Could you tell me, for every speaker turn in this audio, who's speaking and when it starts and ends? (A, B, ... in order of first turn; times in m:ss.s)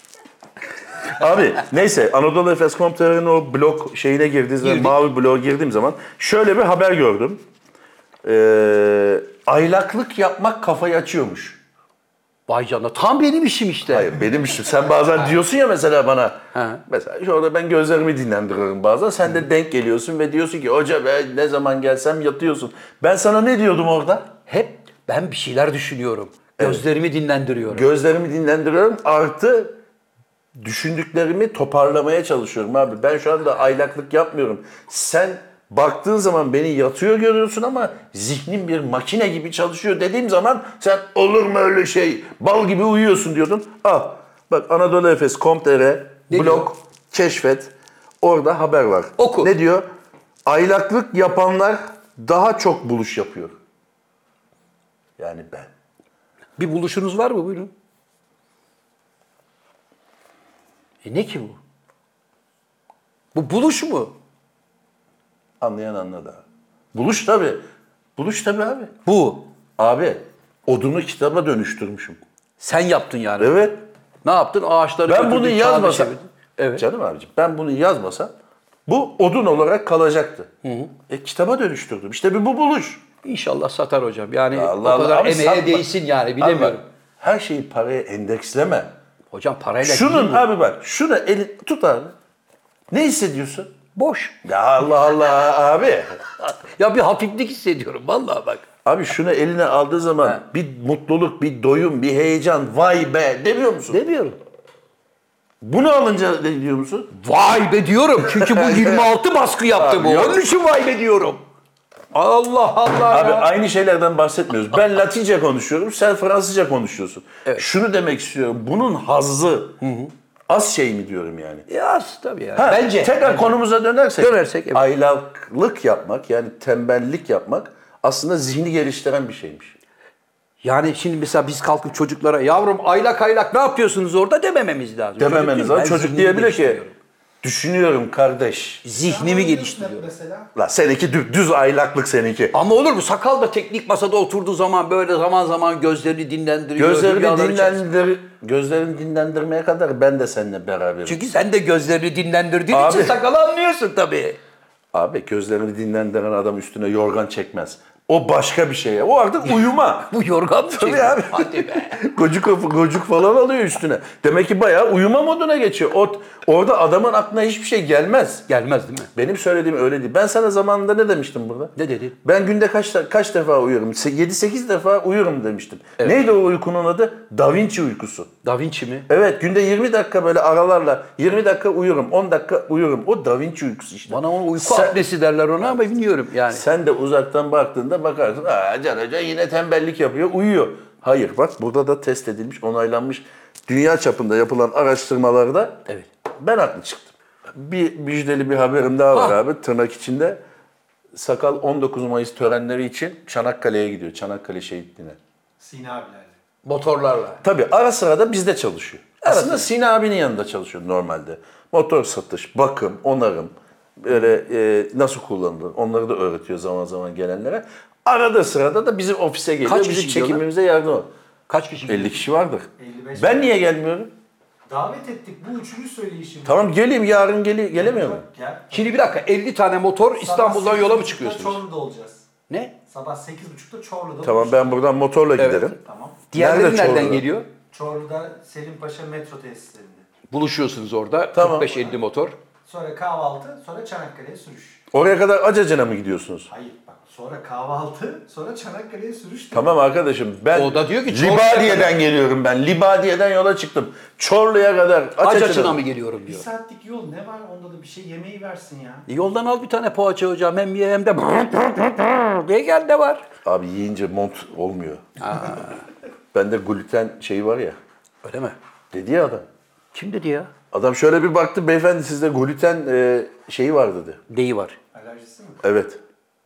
0:01.1-0:07.4 A
0:04.6-0:05.0 B
0:08.2-0:11.6 A
0:12.5-0:14.1 B
0:13.8-0:24.3 A
0:16.5-0:16.8 B
0:24.5-0:27.9 B
0:26.6-0:26.8 A
0:27.7-0:29.8 A
0:30.6-0:49.8 A
0:46.3-0:46.7 B
0:49.2-0:49.5 B
0:50.4-0:53.6 A
0:55.2-0:55.7 A
0:56.6-0:57.7 B
1:01.0-1:01.6 B
1:03.3-1:04.1 B
1:05.6-1:07.6 A
1:08.2-1:08.9 A
1:09.0-1:09.5 B
1:09.8-1:12.2 A
1:12.6-1:13.7 B
1:13.4-1:13.8 A
1:14.2-1:16.8 B
1:15.1-1:16.1 A
1:16.8-1:18.3 A
1:18.9-1:20.5 A
1:20.6-1:20.9 B
1:21.1-1:23.0 A
1:23.2-1:26.8 B
1:24.5-1:28.9 A
1:29.3-1:30.5 B
1:29.8-1:32.1 A
1:32.9-1:33.7 A
1:33.9-1:34.4 B
1:34.4-1:36.2 A
1:36.4-1:38.6 B
1:38.8-1:44.0 A
1:43.9-1:44.4 B
1:45.6-1:47.1 A
1:47.1-1:51.4 B
1:48.2-1:49.1 A
1:49.7-1:50.4 A
1:52.1-1:53.5 B
1:53.1-1:59.8 A
1:59.8-2:00.1 B
2:00.5-2:01.6 A
2:01.7-2:03.6 B
2:02.6-2:09.7 A
2:04.2-2:04.8 B
2:10.6-2:17.0 B
2:15.2-2:16.8 A
2:17.4-2:18.8 A
2:18.8-2:20.1 B
2:19.0-2:20.5 C
2:20.5-2:22.5 A
2:22.5-2:27.9 B
2:26.8-2:31.2 A
2:31.0-2:34.4 B
2:32.7-2:33.2 A
2:34.9-2:40.1 A
2:39.4-2:42.0 B
2:40.7-2:48.4 A
2:48.5-2:49.1 B
2:49.2-2:58.3 A
2:51.8-2:52.2 B
2:58.4-2:59.1 B
2:59.1-3:05.0 A
3:04.1-3:06.6 B
3:05.6-3:05.9 A
3:06.5-3:15.8 A
3:16.4-3:20.4 A
3:21.1-3:25.2 A
3:25.6-3:26.3 C
3:26.6-3:27.4 B
3:27.4-3:41.1 A
3:29.2-3:29.7 B
3:39.6-3:40.4 B
3:41.5-3:42.2 B
3:41.9-3:44.1 A
3:42.8-3:43.6 C
3:44.7-3:46.6 C
3:46.4-3:48.2 A
3:47.8-3:49.1 C
3:48.7-3:51.6 B
3:50.2-3:52.2 C
3:52.5-3:52.7 B
3:52.9-3:54.8 C
3:54.2-3:55.8 A
3:55.4-3:55.7 B
3:55.8-3:56.2 C
3:56.3-3:57.5 B
3:56.3-3:57.2 A
3:57.7-4:00.1 C
4:00.3-4:02.3 B
4:01.3-4:01.8 A
4:02.6-4:04.8 C
4:04.9-4:06.5 A
4:06.5-4:09.7 C
4:09.5-4:15.8 A
4:10.5-4:12.0 B
4:15.2-4:16.4 B
4:16.2-4:19.1 C
4:19.1-4:23.2 B
4:23.4-4:25.6 A
4:25.2-4:25.8 B
4:26.3-4:27.8 A
4:28.2-4:28.6 B
4:28.9-4:29.5 A
4:29.9-4:30.5 B
4:30.7-4:34.2 A
4:34.3-4:34.8 B
4:34.9-4:35.6 C
4:35.6-4:36.0 A